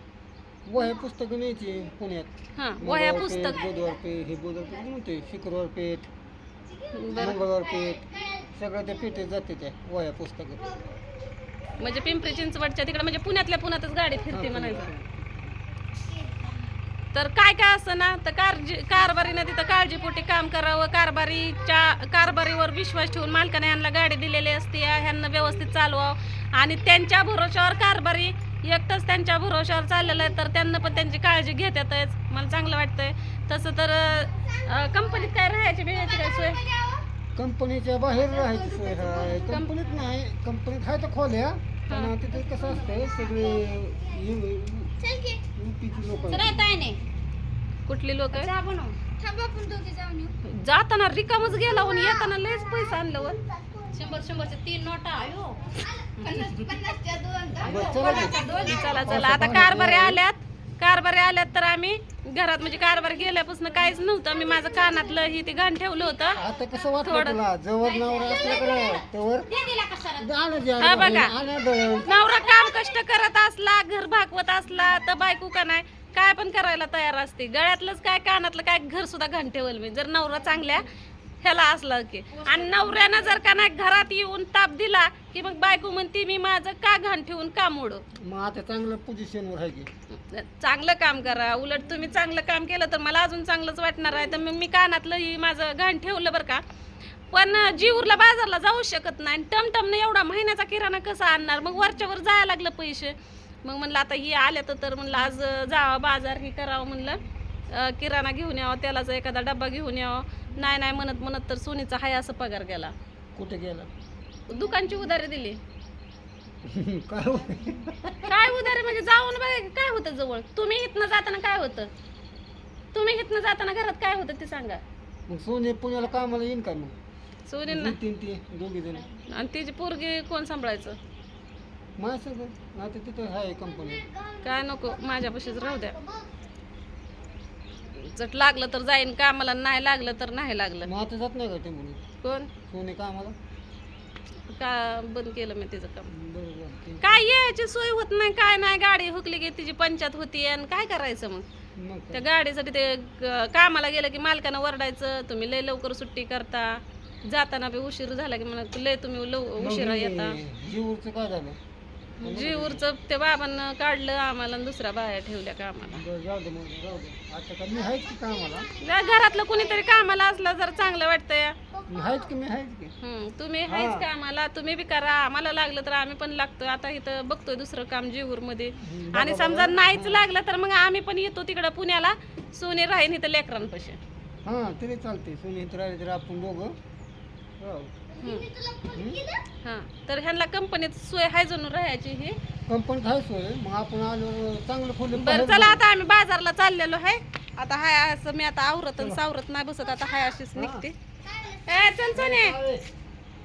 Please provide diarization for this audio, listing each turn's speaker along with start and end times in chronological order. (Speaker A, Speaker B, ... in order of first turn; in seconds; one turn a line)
Speaker A: 0.7-6.1
Speaker B: 2.5-3.6
Speaker B: 6.9-7.4
Speaker A: 7.1-10.8
Speaker B: 11.8-14.9
Speaker A: 14.3-15.5
Speaker B: 17.1-36.6
Speaker C: 36.2-37.0
Speaker A: 37.4-44.9
Speaker C: 38.1-39.8
Speaker B: 39.4-39.7
Speaker B: 41.9-42.1
Speaker C: 45.0-45.4
Speaker A: 45.5-46.7
Speaker C: 46.2-47.0
Speaker B: 47.9-48.5
Speaker C: 48.3-50.3
Speaker B: 50.4-53.4
Speaker C: 53.9-59.2
Speaker A: 57.6-60.2
Speaker B: 58.4-66.4
Speaker A: 66.3-69.5
Speaker B: 67.0-67.4
Speaker C: 67.8-70.3
Speaker A: 70.2-72.2
Speaker B: 70.8-71.3
Speaker B: 72.0-80.9
Speaker C: 72.2-72.8
Speaker B: 81.4-88.0
Speaker A: 88.1-89.9
Speaker B: 90.1-96.6
Speaker B: 97.3-112.9
Speaker A: 113.3-113.9
Speaker B: 114.5-115.6
Speaker A: 116.6-118.3
Speaker B: 118.2-121.9
Speaker B: 122.9-124.8
Speaker A: 125.3-126.9
Speaker B: 127.5-128.0
Speaker A: 127.7-129.1
Speaker B: 129.2-131.0
Speaker A: 132.0-134.0
Speaker B: 134.4-136.0
Speaker B: 137.9-140.9
Speaker A: 140.8-142.0
Speaker B: 142.2-142.5
Speaker A: 142.7-143.3
Speaker B: 144.5-146.1
Speaker A: 146.1-147.3
Speaker B: 147.0-151.4
Speaker A: 151.8-152.2
Speaker B: 152.1-160.4
Speaker A: 159.6-161.6
Speaker B: 162.2-166.0
Speaker A: 162.2-162.8
Speaker A: 165.9-168.7
Speaker B: 168.8-171.6
Speaker A: 171.9-172.9
Speaker B: 173.0-184.0
Speaker A: 173.7-174.1
Speaker A: 178.8-180.3
Speaker A: 184.4-186.7
Speaker A: 187.6-187.9
Speaker B: 188.2-188.5
Speaker C: 188.6-188.9
Speaker A: 188.9-189.2
Speaker B: 189.6-192.4
Speaker A: 192.7-195.8
Speaker B: 195.1-202.6
Speaker A: 200.6-200.8
Speaker A: 202.1-202.9